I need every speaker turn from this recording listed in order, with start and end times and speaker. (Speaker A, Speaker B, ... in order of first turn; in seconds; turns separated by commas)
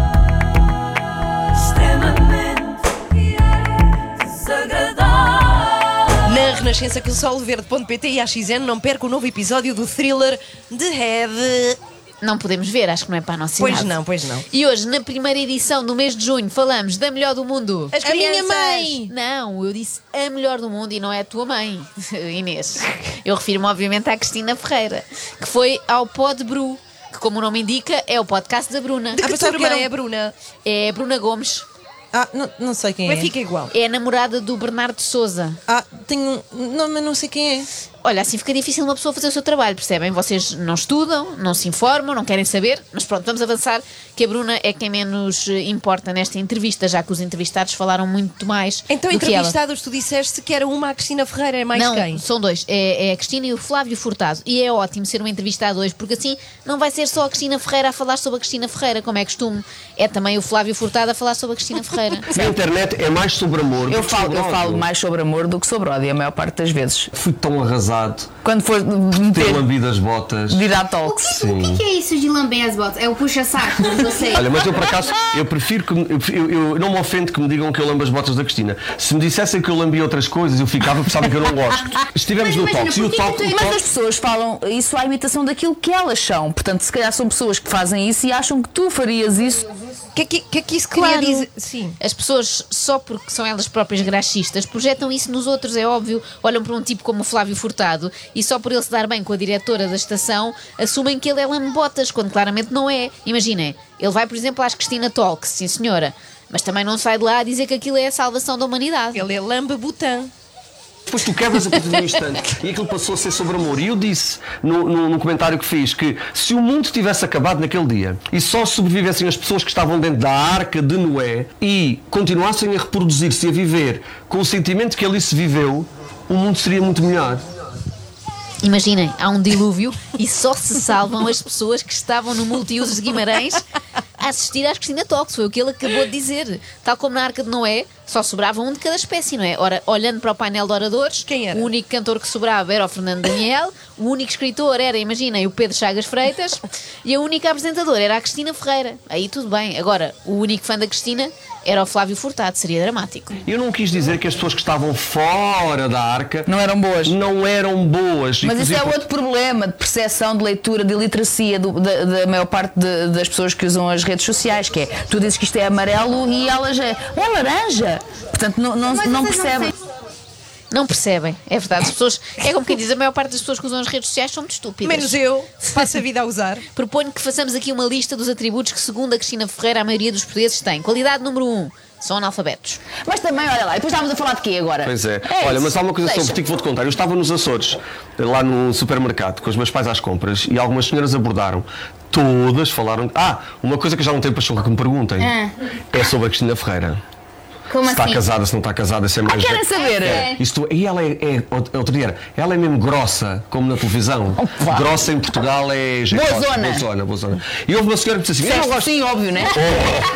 Speaker A: 1.8-2.8, Speaker A: 4.6-5.3, Speaker A: 6.2-11.8, Speaker B: 12.2-14.0, Speaker A: 13.6-14.4, Speaker B: 14.5-29.2, Speaker A: 17.9-19.1, Speaker C: 29.2-29.9, Speaker A: 29.2-30.3, Speaker B: 30.6-31.7, Speaker C: 32.1-33.3, Speaker A: 33.0-33.7, Speaker B: 33.7-35.6, Speaker C: 35.7-37.7, Speaker B: 38.0-49.5, Speaker A: 48.9-52.2, Speaker B: 51.7-62.3, Speaker D: 62.3-64.9, Speaker E: 63.9-67.1, Speaker D: 67.1-68.3, Speaker E: 68.4-69.7, Speaker D: 69.3-70.6, Speaker E: 70.5-71.3, Speaker F: 71.0-74.6, Speaker D: 71.4-71.8, Speaker D: 74.3-83.8, Speaker F: 82.3-83.6, Speaker E: 83.5-89.7, Speaker A: 90.1-92.0, Speaker B: 91.0-91.5, Speaker B: 92.0-109.3, Speaker A: 109.2-110.3, Speaker D: 111.1-127.4, Speaker B: 128.6-133.7, Speaker B: 134.2-153.4, Speaker A: 141.2-141.7, Speaker D: 153.4-156.5, Speaker E: 156.5-157.2, Speaker D: 157.1-159.0, Speaker E: 158.4-169.7, Speaker F: 169.0-169.7, Speaker B: 170.7-175.1, Speaker A: 174.8-176.6, Speaker B: 176.8-182.8, Speaker E: 183.1-186.4, Speaker D: 184.8-195.3, Speaker F: 195.2-195.5, Speaker D: 195.9-197.0, Speaker D: 197.8-208.9, Speaker E: 197.8-198.2, Speaker E: 199.2-200.3, Speaker F: 199.7-200.4, Speaker E: 204.4-205.1, Speaker E: 206.1-206.9, Speaker E: 208.4-209.6, Speaker D: 209.5-210.0